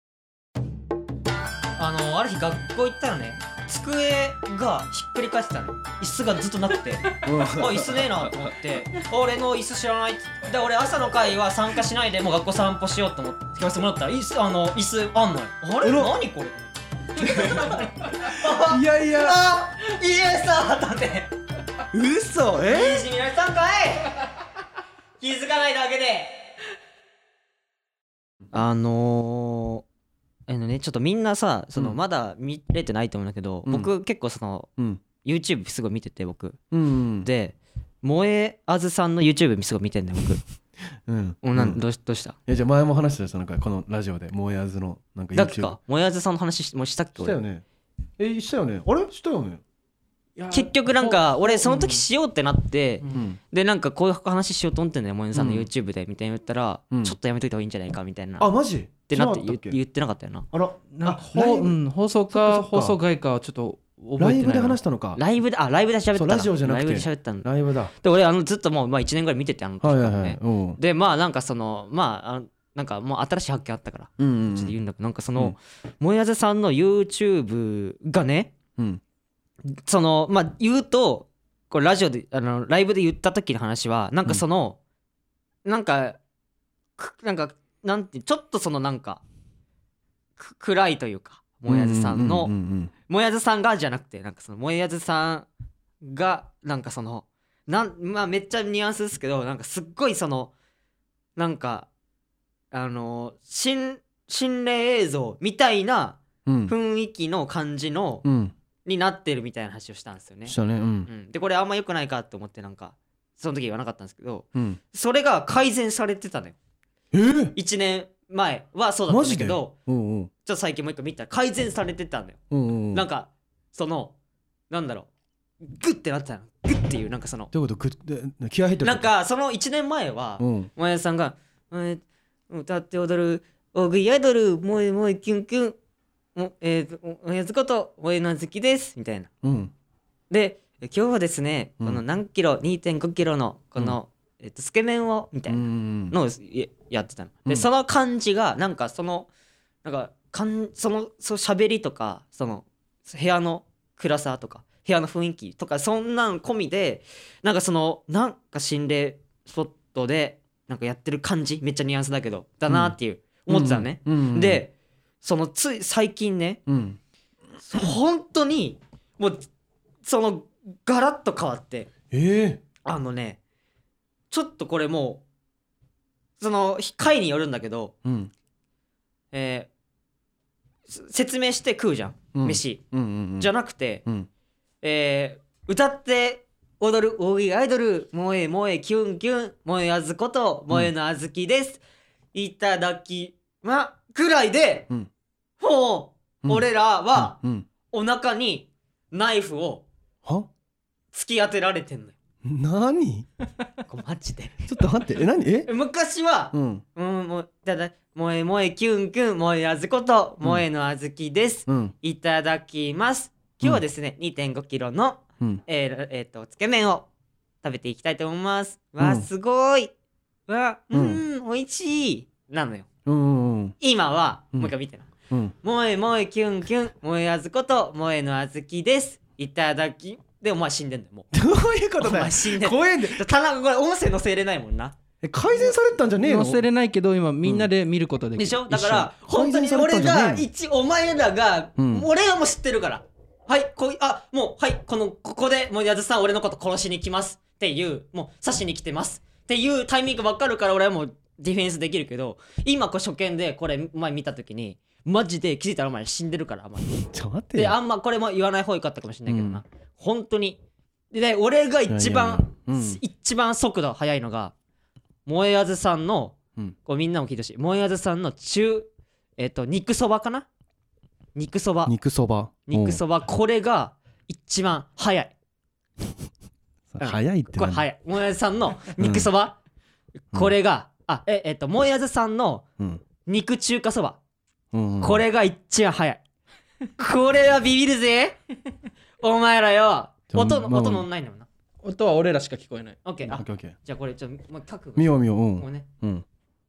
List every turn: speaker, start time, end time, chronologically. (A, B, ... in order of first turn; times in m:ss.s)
0:01.8-0:21.3 A
0:07.2-0:08.5 B
0:15.8-0:16.1 B
0:17.2-0:19.4 B
0:21.9-0:23.0 B
0:22.6-0:24.1 A
0:25.2-0:26.4 A
0:28.5-0:29.8 A
0:30.5-0:34.7 A
0:34.8-0:35.0 B
0:35.2-0:36.6 A
0:36.7-0:37.3 B
0:37.2-0:40.4 A
0:41.0-0:41.8 B
0:41.4-0:42.4 A
0:42.5-0:45.8 B
0:45.3-0:47.4 A
0:47.2-0:47.6 B
0:48.2-0:49.6 B
0:50.4-0:50.6 B
0:50.5-0:58.5 A
0:51.1-0:51.9 C
0:53.0-0:53.4 B
0:55.3-0:55.7 B
0:56.9-0:57.2 B
0:58.4-0:59.8 B
0:59.1-1:00.5 A
1:00.5-1:01.8 B
1:00.9-1:04.8 C
1:02.3-1:03.0 B
1:04.2-1:05.2 B
1:05.2-1:18.5 A
1:06.1-1:07.9 B
1:09.8-1:10.8 B
1:14.2-1:14.7 B
1:19.6-1:24.8 A
1:25.6-1:26.2 A
1:27.0-1:29.2 A
1:30.4-1:32.5 A
1:31.7-1:32.9 B
1:33.1-1:35.5 A
1:36.0-1:40.5 A
1:41.4-1:41.9 A
1:42.7-1:48.2 A
1:46.4-1:46.7 B
1:48.2-1:48.5 B
1:48.8-1:56.6 A
1:50.4-1:51.1 B
1:57.1-1:57.6 B
1:57.5-1:59.7 A
1:59.1-2:00.3 B
2:00.4-2:02.4 A
2:02.5-2:03.0 B
2:02.9-2:04.1 A
2:04.7-2:05.1 A
2:05.6-2:07.5 A
2:07.5-2:09.1 B
2:08.8-2:15.8 A
2:10.4-2:10.7 B
2:16.4-2:19.3 A
2:19.4-2:19.7 B
2:20.3-2:29.3 A
2:25.5-2:26.2 B
2:29.8-2:46.6 A
2:42.7-2:43.0 B
2:43.5-2:44.6 B
2:46.7-2:47.0 B
2:47.6-2:49.5 A
2:50.0-2:51.9 A
2:52.1-2:52.6 B
2:52.8-2:53.4 A
2:54.3-2:55.2 A
2:56.4-2:57.9 A
2:58.0-2:58.3 B
2:59.3-2:59.7 A
3:00.9-3:02.8 A
3:02.3-3:03.5 B
3:03.4-3:04.0 A
3:04.8-3:11.8 A
3:12.3-3:14.9 A
3:15.6-3:17.4 A
3:16.4-3:17.7 B
3:17.9-3:19.8 A
3:20.2-3:20.5 B
3:21.1-3:22.1 A
3:22.4-3:23.3 B
3:23.8-3:24.7 A
3:24.7-3:25.7 B
3:25.6-3:37.1 A
3:26.5-3:26.8 B
3:31.7-3:31.9 B
3:37.6-3:39.9 A
3:39.0-3:39.3 B
3:40.5-3:42.9 A
3:40.9-3:41.2 B
3:43.0-3:43.8 B
3:43.8-3:45.1 A
3:45.3-3:45.5 B
3:45.6-3:51.3 A
3:51.3-3:53.2 B
3:52.0-3:54.9 A
3:55.2-3:56.6 B
3:56.2-3:59.0 C
3:57.4-3:57.7 B
3:58.4-4:17.0 A
3:58.7-4:00.5 B
4:01.8-4:02.1 B
4:16.9-4:17.8 B
4:17.5-4:20.6 A
4:19.3-4:19.6 B
4:21.1-4:24.5 A
4:21.9-4:23.0 B
4:25.2-4:30.5 A
4:31.3-4:31.9 A
4:31.8-4:33.0 B
4:32.7-4:35.3 A
4:36.9-4:37.8 B
4:37.0-4:39.6 A
4:39.0-4:39.3 B
4:40.3-4:42.6 A
4:42.8-4:43.0 B
4:43.2-4:44.2 A
4:44.7-4:45.2 B
4:45.0-4:46.2 A
4:47.0-4:48.4 A
4:49.2-4:51.5 A
4:50.3-4:51.1 B
4:51.8-4:53.0 C
4:53.0-4:55.8 A
4:53.2-4:53.8 B
4:55.0-4:56.2 B